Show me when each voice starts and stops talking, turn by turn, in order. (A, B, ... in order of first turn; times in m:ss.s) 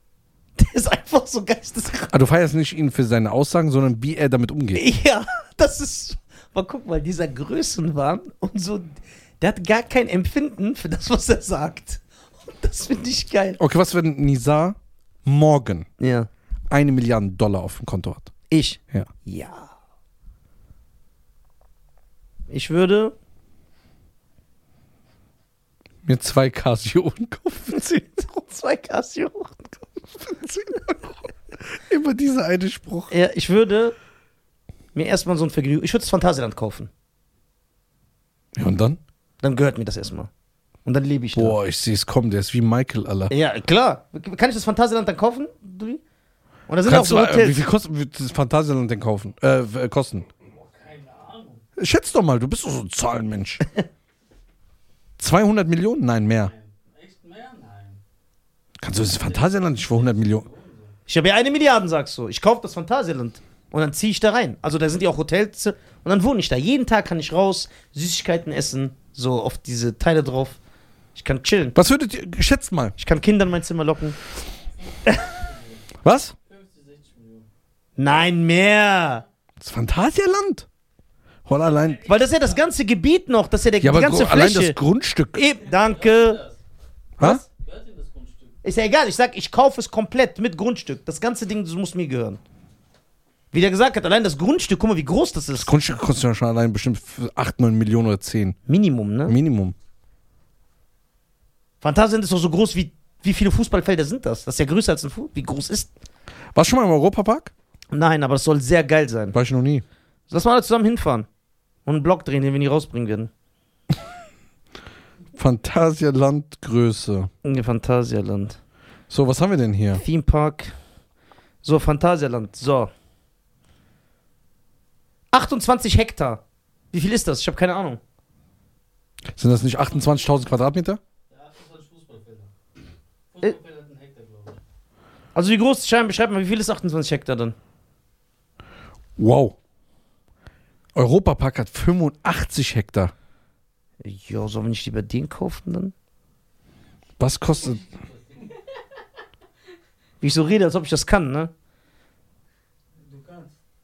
0:00.6-0:02.1 A
0:02.1-0:04.8 B
0:04.7-0:13.6 A
0:13.6-0:15.9 B
0:16.0-0:16.3 A
0:16.7-0:18.3 B
0:18.5-0:19.7 A
0:22.5-0:23.2 A
0:26.0-0:27.8 B
0:27.7-0:30.8 A
0:30.6-0:31.0 B
0:31.7-0:33.1 B
0:33.1-0:34.0 A
0:34.9-0:36.9 A
0:38.6-0:39.0 B
0:39.4-0:40.3 A
0:40.8-0:41.6 A
0:41.4-0:43.3 B
0:43.3-0:46.0 A
0:46.7-0:47.6 A
0:46.8-0:50.3 B
0:50.5-0:51.6 C
0:51.8-0:53.6 B
0:55.2-0:56.5 B
0:56.4-0:58.0 C
0:58.8-1:00.5 B
0:59.1-1:01.0 C
1:01.1-1:10.6 A
1:11.2-1:11.8 A
1:11.8-1:13.0 B
1:13.0-1:14.2 A
1:14.9-1:15.9 C
1:16.0-1:16.3 B
1:16.5-1:17.5 C
1:18.0-1:19.2 A
1:19.6-1:20.7 B
1:21.5-1:22.1 B
1:21.5-1:22.7 C
1:22.1-1:24.8 A
1:23.8-1:25.4 B
1:25.3-1:26.4 A
1:25.6-1:26.6 C
1:27.4-1:28.6 C
1:28.6-1:32.4 A
1:33.5-1:35.8 A
1:35.6-1:38.6 B
1:38.7-1:39.4 A
1:39.3-1:39.8 B
1:41.8-1:45.9 A
1:46.6-1:47.5 B
1:47.9-1:49.4 A
1:49.3-1:49.8 B
1:50.3-1:51.3 A
1:51.9-1:53.3 A
1:55.4-1:57.3 B
1:57.4-1:58.6 A
1:59.1-2:00.0 B
2:00.0-2:00.7 A
2:01.6-2:02.9 A
2:05.3-2:06.4 A
2:06.9-2:08.0 A
2:09.4-2:11.0 B
2:11.3-2:12.5 C
2:13.3-2:14.6 C
2:15.4-2:17.6 A
2:19.2-2:19.6 B
2:21.0-2:23.1 B
2:24.0-2:25.9 A
2:27.2-2:27.8 B
2:27.6-2:28.6 C
2:30.2-2:31.5 A
2:33.0-2:33.5 C